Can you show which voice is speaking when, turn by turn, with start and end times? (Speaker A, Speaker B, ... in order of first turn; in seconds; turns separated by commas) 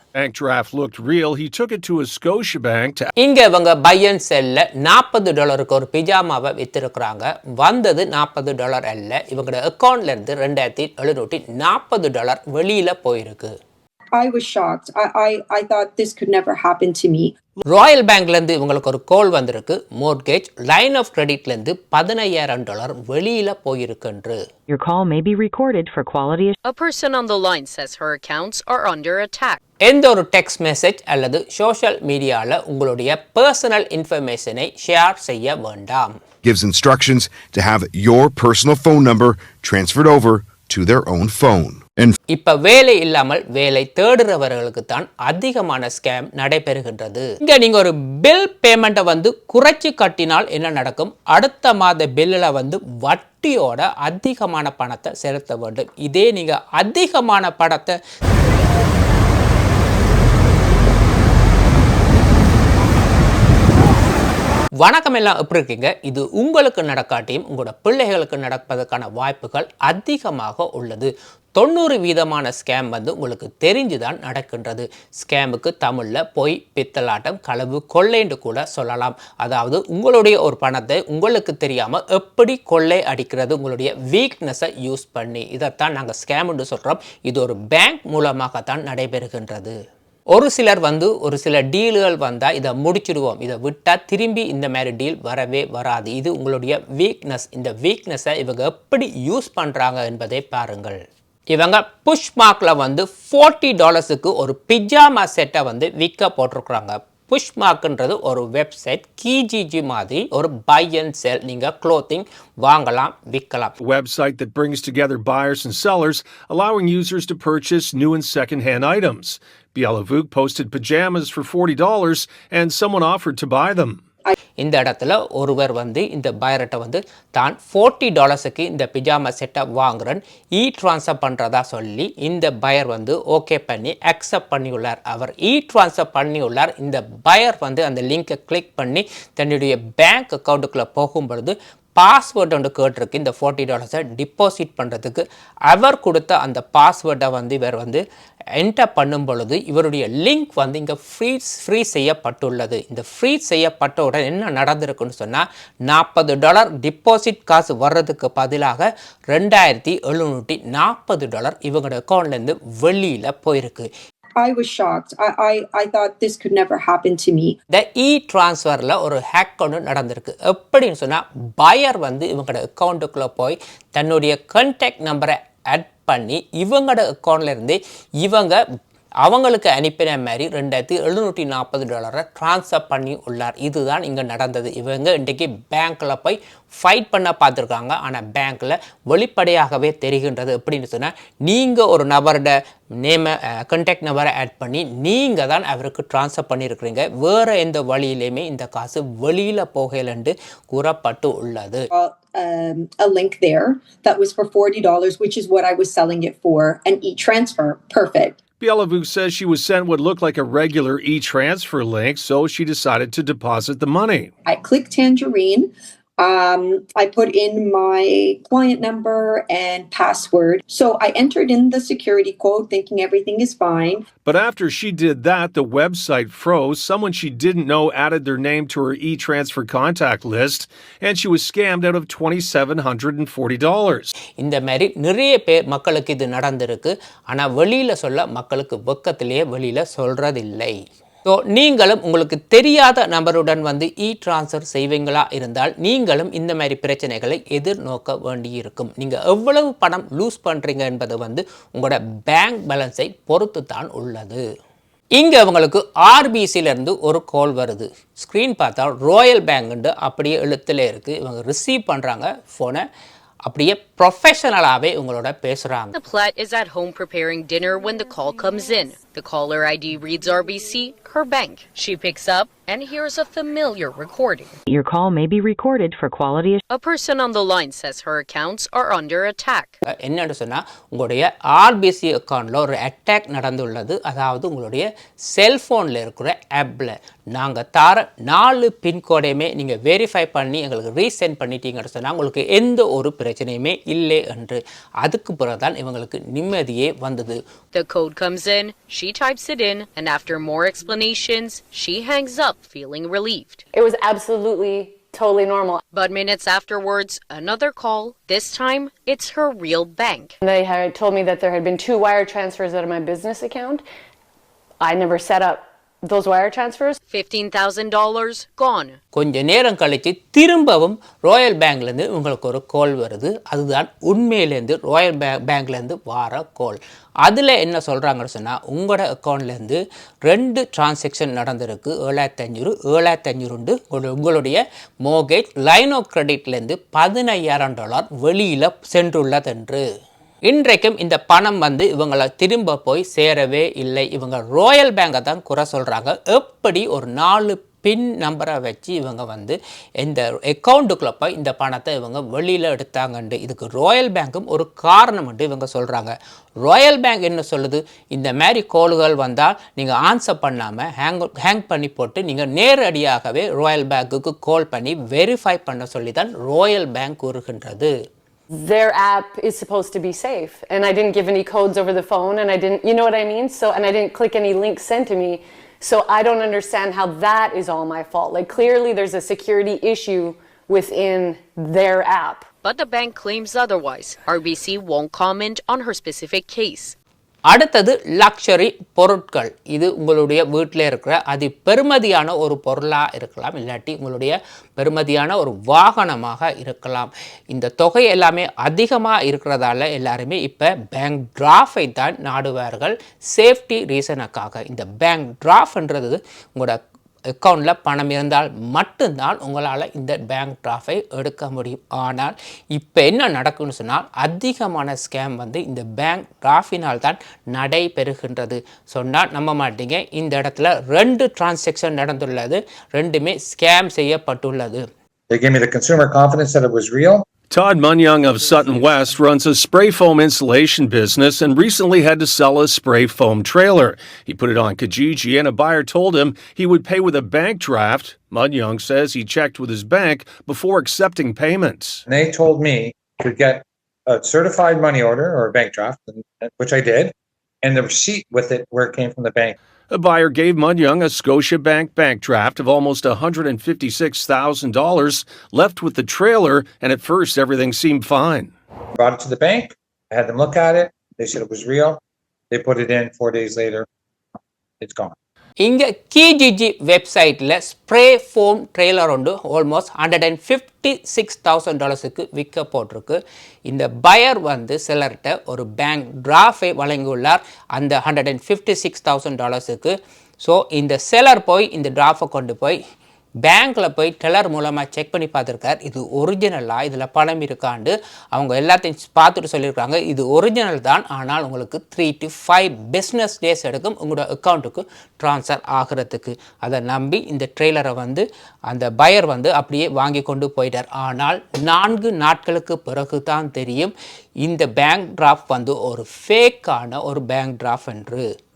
Speaker A: 0.1-3.1, Speaker B: 3.2-13.6, Speaker C: 14.2-17.3, Speaker B: 17.7-24.4, Speaker D: 24.7-26.6, Speaker E: 26.6-29.6, Speaker B: 29.8-36.2, Speaker F: 36.4-42.2, Speaker B: 42.3-58.0, Speaker B: 64.8-89.8, Speaker B: 90.3-101.0, Speaker B: 101.5-113.7, Speaker A: 113.8-124.0, Speaker B: 124.6-148.0, Speaker B: 148.6-163.9, Speaker C: 164.4-167.6, Speaker B: 167.7-178.6, Speaker B: 179.2-201.9, Speaker C: 201.9-208.4, Speaker A: 208.6-214.3, Speaker C: 214.5-215.7, Speaker C: 216.2-224.0, Speaker A: 224.2-234.1, Speaker B: 234.4-254.4, Speaker B: 255.2-262.8, Speaker B: 263.5-265.9, Speaker E: 265.9-274.6, Speaker D: 274.7-276.6, Speaker E: 276.7-279.8, Speaker B: 280.0-297.4, Speaker E: 297.7-303.6, Speaker G: 303.7-305.8, Speaker E: 305.9-310.4, Speaker G: 310.4-313.8, Speaker G: 314.8-317.0, Speaker E: 317.1-319.0, Speaker B: 319.1-339.9, Speaker B: 340.4-367.9, Speaker G: 368.5-382.5, Speaker E: 382.6-386.9, Speaker B: 387.5-406.8, Speaker B: 407.4-424.9, Speaker H: 425.3-427.2, Speaker A: 427.5-442.0, Speaker H: 442.1-449.6, Speaker A: 449.9-458.5, Speaker H: 459.0-462.0, Speaker H: 462.5-463.9, Speaker H: 464.8-465.1, Speaker B: 465.6-482.8, Speaker B: 483.4-508.3